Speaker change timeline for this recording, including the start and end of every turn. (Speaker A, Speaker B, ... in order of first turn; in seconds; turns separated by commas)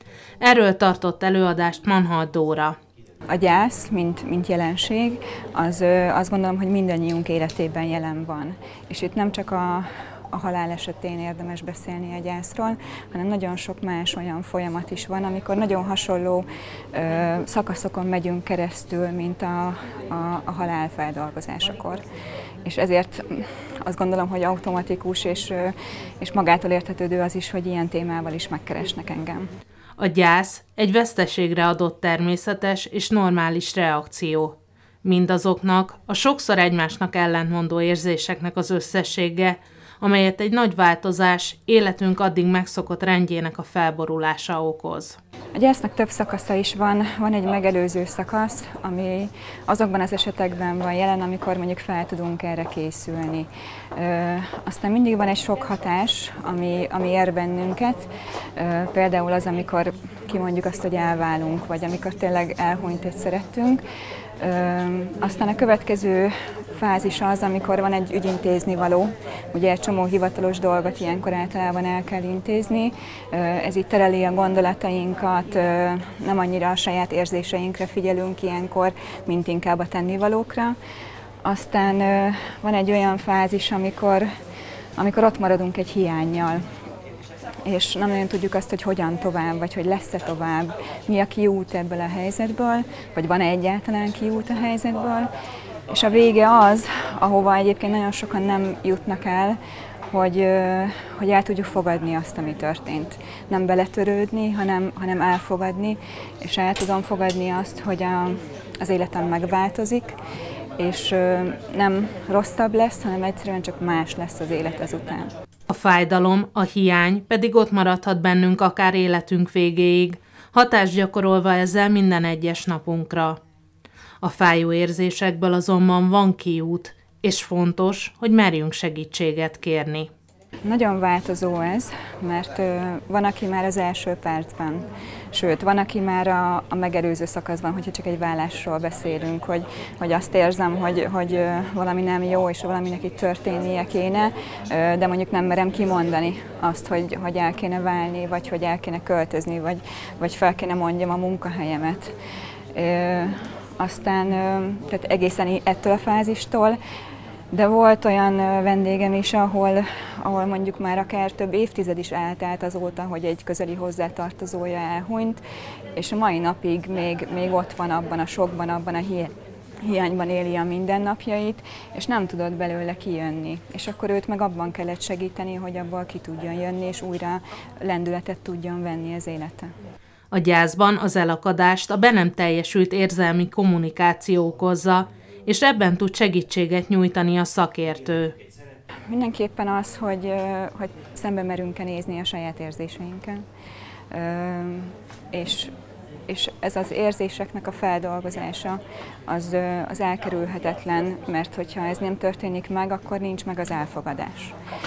Speaker A: 0.4-2.8, Speaker B: 3.3-22.0, Speaker B: 22.6-29.5, Speaker A: 30.0-45.2, Speaker B: 45.5-63.8, Speaker B: 64.4-80.8, Speaker B: 81.4-84.3, Speaker B: 85.0-86.6, Speaker B: 87.6-95.3, Speaker B: 95.9-99.6, Speaker B: 100.1-110.1, Speaker B: 110.8-115.3, Speaker A: 115.7-123.4, Speaker A: 124.2-130.1, Speaker B: 130.7-152.1, Speaker B: 152.7-156.8, Speaker B: 157.5-165.4, Speaker B: 165.9-169.3, Speaker B: 169.8-179.7, Speaker A: 180.3-188.3, Speaker B: 189.1-193.4, Speaker B: 194.1-195.7, Speaker B: 196.3-204.6